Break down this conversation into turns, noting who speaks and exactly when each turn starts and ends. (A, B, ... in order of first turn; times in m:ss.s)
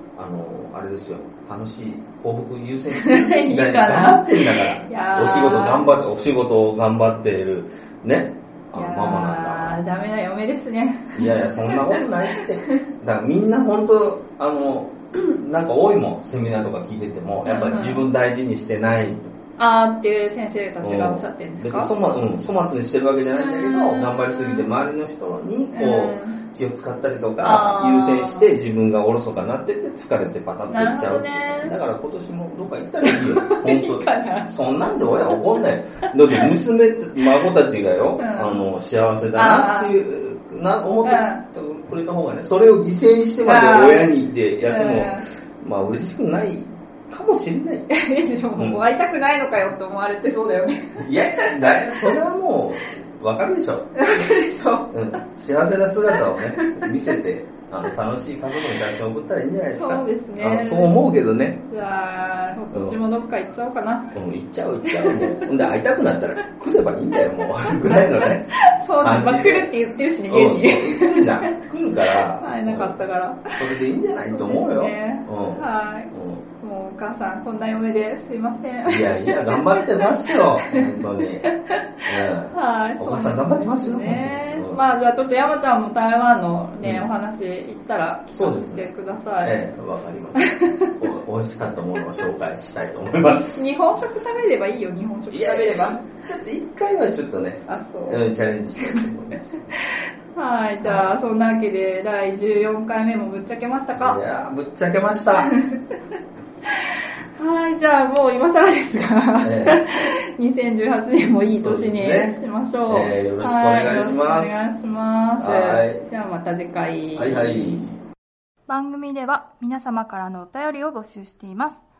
0:00.1-0:09.8 A
0:02.9-0:05.9 B
0:08.7-0:12.8 B
0:11.1-0:19.3 A
0:17.4-0:18.0 B
0:19.6-0:21.9 B
0:20.8-0:47.9 A
0:23.3-0:24.7 B
0:25.7-0:26.4 B
0:27.4-0:28.5 B
0:30.7-0:31.8 B
0:33.0-0:34.5 B
0:36.3-0:36.6 B
0:38.2-0:38.6 B
0:39.3-0:39.9 B
0:41.0-0:41.4 B
0:43.4-0:44.1 B
0:44.6-0:45.2 B
0:47.9-0:52.1 B
0:48.6-0:48.8 A
0:51.0-0:54.2 A
0:54.0-0:54.9 B
0:54.9-1:01.6 A
0:56.1-0:57.2 B
0:59.8-1:01.0 B
1:01.7-1:04.1 B
1:02.7-1:03.0 A
1:04.1-1:09.7 A
1:04.9-1:05.5 B
1:08.6-1:11.6 B
1:10.3-1:13.0 A
1:12.1-1:13.6 B
1:13.5-1:16.4 A
1:14.3-1:29.6 B
1:18.9-1:21.5 A
1:22.1-1:24.8 A
1:26.8-1:27.1 A
1:28.3-1:28.9 A
1:29.4-1:33.8 A
1:30.4-1:31.0 B
1:33.5-1:36.0 B
1:35.3-1:39.6 A
1:37.7-1:44.2 B
1:40.8-1:41.2 A
1:44.0-1:45.5 A
1:45.4-1:45.9 B
1:46.7-1:57.9 B
1:49.4-1:49.8 A
1:51.5-1:52.4 A
1:52.9-1:54.7 A
1:55.4-1:56.0 A
1:57.1-1:58.0 A
1:58.7-2:01.8 B